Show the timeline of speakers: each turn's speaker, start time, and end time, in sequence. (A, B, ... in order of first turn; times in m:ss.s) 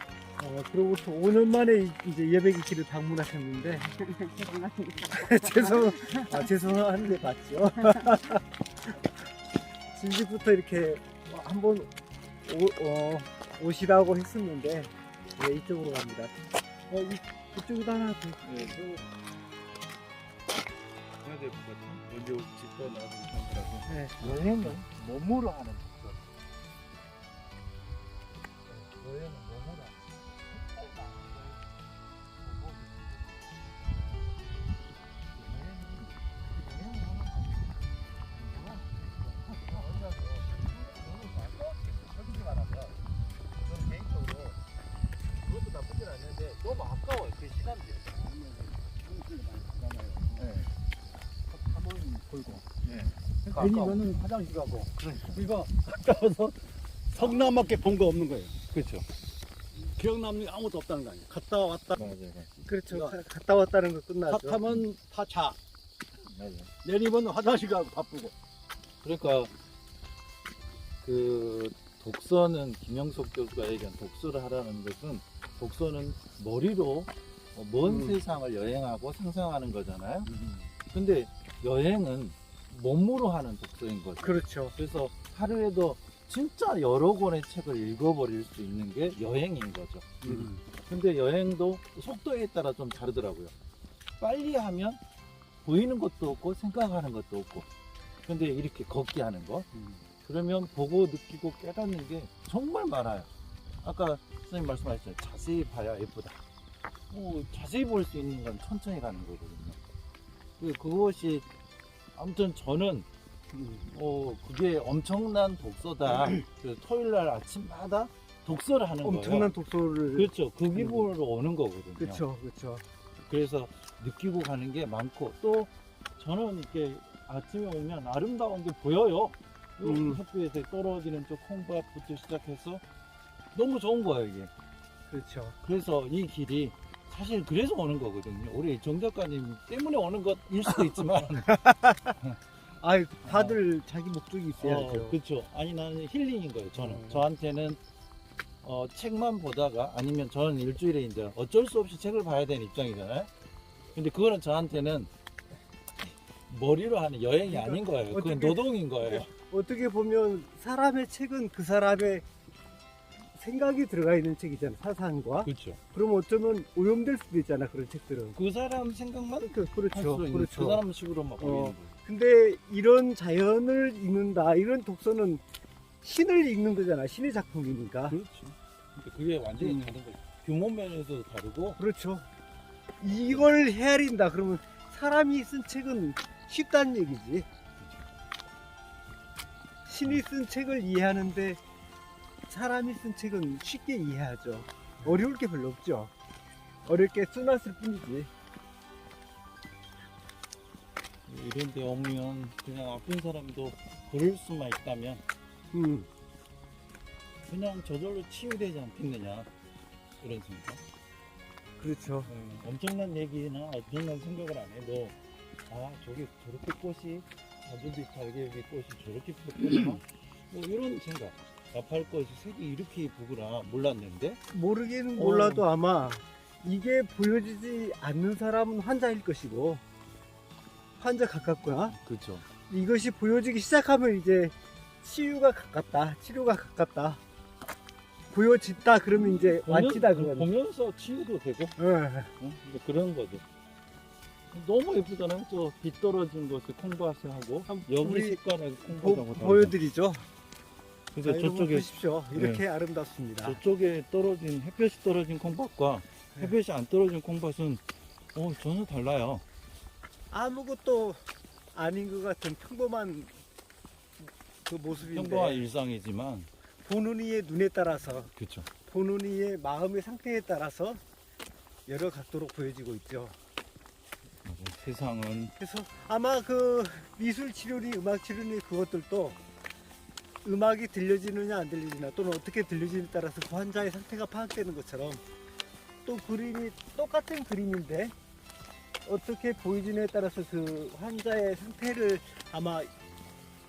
0:00.4-0:03.9 A
0:04.0-0:06.5 B
0:05.1-0:08.4 A
0:07.8-0:08.1 B
0:09.9-0:11.9 A
0:12.5-0:16.3 A
0:16.9-0:18.8 A
0:18.4-0:18.9 C
0:21.2-0:26.2 C
0:23.9-0:24.4 A
0:28.7-0:31.6 C
0:32.4-0:33.4 C
0:35.3-0:43.0 C
0:43.6-0:44.6 C
0:45.4-0:48.1 C
0:48.1-0:50.6 D
0:50.4-0:50.7 C
0:51.5-0:52.7 D
0:52.8-0:54.0 C
0:53.5-0:56.6 D
0:55.0-0:55.4 C
0:57.1-0:58.6 D
0:58.7-0:59.1 C
0:59.8-1:02.0 D
1:02.0-1:02.5 C
1:02.6-1:04.6 A
1:02.9-1:03.2 D
1:04.3-1:05.6 D
1:06.2-1:06.7 C
1:06.8-1:08.3 D
1:09.0-1:09.5 C
1:11.0-1:20.3 C
1:17.8-1:18.2 A
1:20.3-1:20.7 D
1:20.8-1:33.5 C
1:24.2-1:24.8 A
1:30.2-1:30.5 D
1:34.2-1:35.0 C
1:35.6-1:37.7 C
1:38.3-1:39.7 C
1:39.7-1:40.0 D
1:40.2-1:43.3 C
1:43.8-1:46.4 C
1:47.1-1:49.8 C
1:50.6-1:51.5 C
1:52.2-1:53.1 C
1:53.5-1:53.8 A
1:53.8-1:59.5 C
1:59.0-2:01.1 A
2:00.1-2:02.2 C
2:02.0-2:02.8 A
2:03.2-2:12.8 C
2:09.8-2:10.2 A
2:13.6-2:14.5 C
2:15.1-2:15.6 A
2:15.6-2:21.5 C
2:21.4-2:22.1 A
2:22.8-2:25.2 A
2:23.2-2:23.6 C
2:24.6-2:27.8 C
2:26.8-2:27.2 A
2:28.6-2:33.3 C
2:34.0-2:35.1 C
2:36.5-2:39.3 C
2:37.5-2:42.2 A
2:43.4-2:48.4 A
2:45.4-2:45.8 C
2:48.4-2:52.0 C
2:49.4-2:50.8 A
2:51.4-2:55.4 A
2:56.0-2:58.2 A
2:58.1-3:01.8 C
2:59.6-2:59.9 A
3:01.8-3:02.2 A
3:03.0-3:07.5 A
3:03.1-3:03.5 C
3:09.9-3:11.6 A
3:12.5-3:16.1 A
3:16.9-3:18.3 A
3:21.3-3:25.2 C
3:25.7-3:26.1 A
3:27.5-3:29.5 C
3:30.2-3:30.8 C
3:31.8-3:32.3 A
3:32.3-3:35.2 C
3:35.7-3:44.4 C
3:44.5-3:49.8 A
3:45.2-3:45.7 C
3:51.0-3:52.0 A
3:51.9-3:52.4 C
3:52.7-3:57.2 A
3:58.3-4:00.5 A
3:59.2-4:01.8 C
4:01.8-4:02.3 A
4:02.4-4:03.4 C
4:04.5-4:09.8 C
4:07.7-4:10.2 A
4:11.1-4:12.6 C
4:11.2-4:13.6 A
4:13.4-4:17.8 C
4:18.4-4:19.4 C
4:20.3-4:21.2 A
4:21.7-4:23.3 A
4:24.2-4:25.7 A
4:24.9-4:26.5 C
4:26.8-4:28.3 A
4:28.4-4:28.7 C
4:28.9-4:31.0 A
4:31.9-4:33.4 A
4:34.4-4:35.6 C
4:35.6-4:39.4 A
4:40.4-4:45.2 A
4:46.0-4:48.1 A
4:49.0-4:52.9 A